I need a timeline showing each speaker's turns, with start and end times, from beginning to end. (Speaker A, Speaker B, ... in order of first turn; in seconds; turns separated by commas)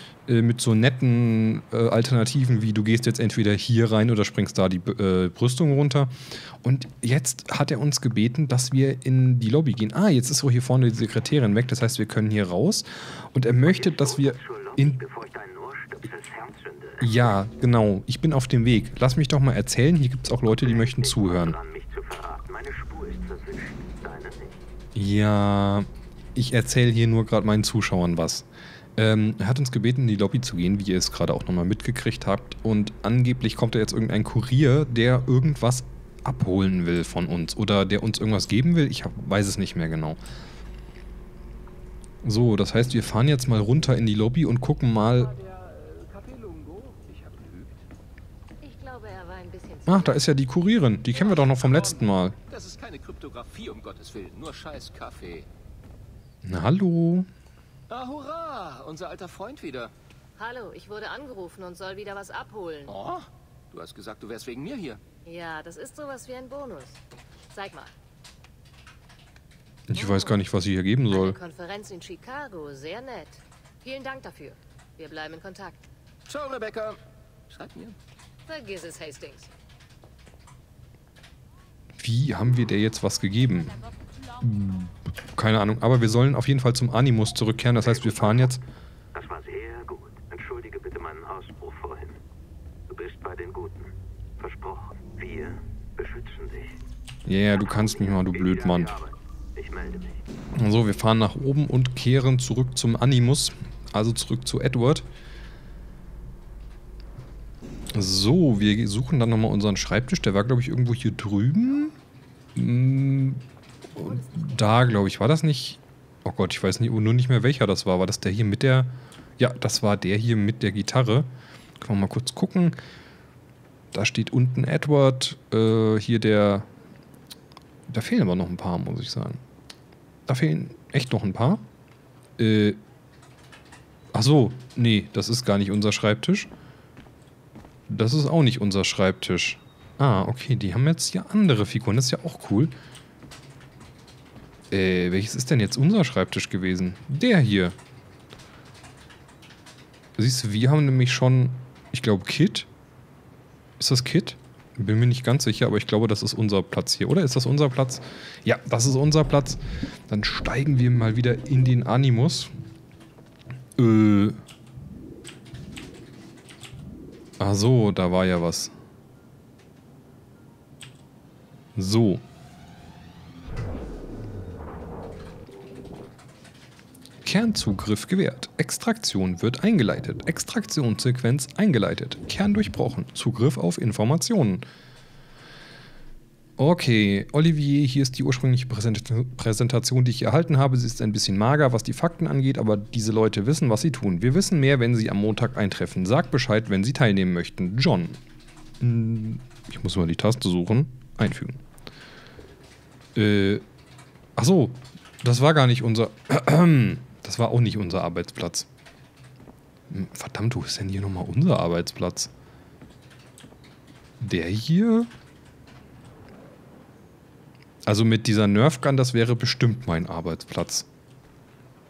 Speaker A: 0.3-15.0, Speaker B: 13.7-17.0, Speaker A: 17.0-21.6, Speaker B: 20.8-24.6, Speaker A: 24.9-40.2, Speaker A: 42.2-45.3, Speaker C: 45.2-47.9, Speaker D: 48.6-50.4, Speaker A: 49.9-52.4, Speaker C: 51.2-55.5, Speaker A: 56.4-57.3, Speaker C: 57.9-59.9, Speaker D: 60.4-62.9, Speaker C: 62.9-65.0, Speaker D: 65.3-67.0, Speaker D: 67.5-67.9, Speaker A: 69.9-71.4, Speaker D: 70.0-70.4, Speaker D: 71.1-75.8, Speaker C: 76.3-78.0, Speaker D: 78.5-79.5, Speaker A: 82.0-83.8, Speaker A: 84.4-88.6, Speaker B: 89.4-92.2, Speaker B: 92.9-96.8, Speaker A: 97.3-98.9, Speaker B: 99.8-100.2, Speaker A: 100.6-105.1, Speaker A: 107.9-111.9, Speaker A: 112.5-113.4, Speaker A: 114.0-122.8, Speaker A: 123.9-126.7, Speaker A: 127.9-129.4, Speaker A: 130.3-131.7, Speaker A: 132.4-132.8, Speaker A: 134.1-136.5, Speaker A: 137.9-142.7, Speaker A: 144.7-147.8, Speaker A: 150.2-152.7, Speaker A: 153.8-162.5, Speaker A: 163.8-164.4, Speaker A: 167.4-168.7, Speaker A: 171.8-172.2, Speaker A: 177.2-184.7, Speaker A: 186.6-198.2, Speaker A: 198.8-201.6, Speaker A: 203.2-203.6, Speaker A: 204.4-208.7, Speaker A: 209.9-212.3, Speaker A: 214.2-215.1, Speaker A: 217.9-220.9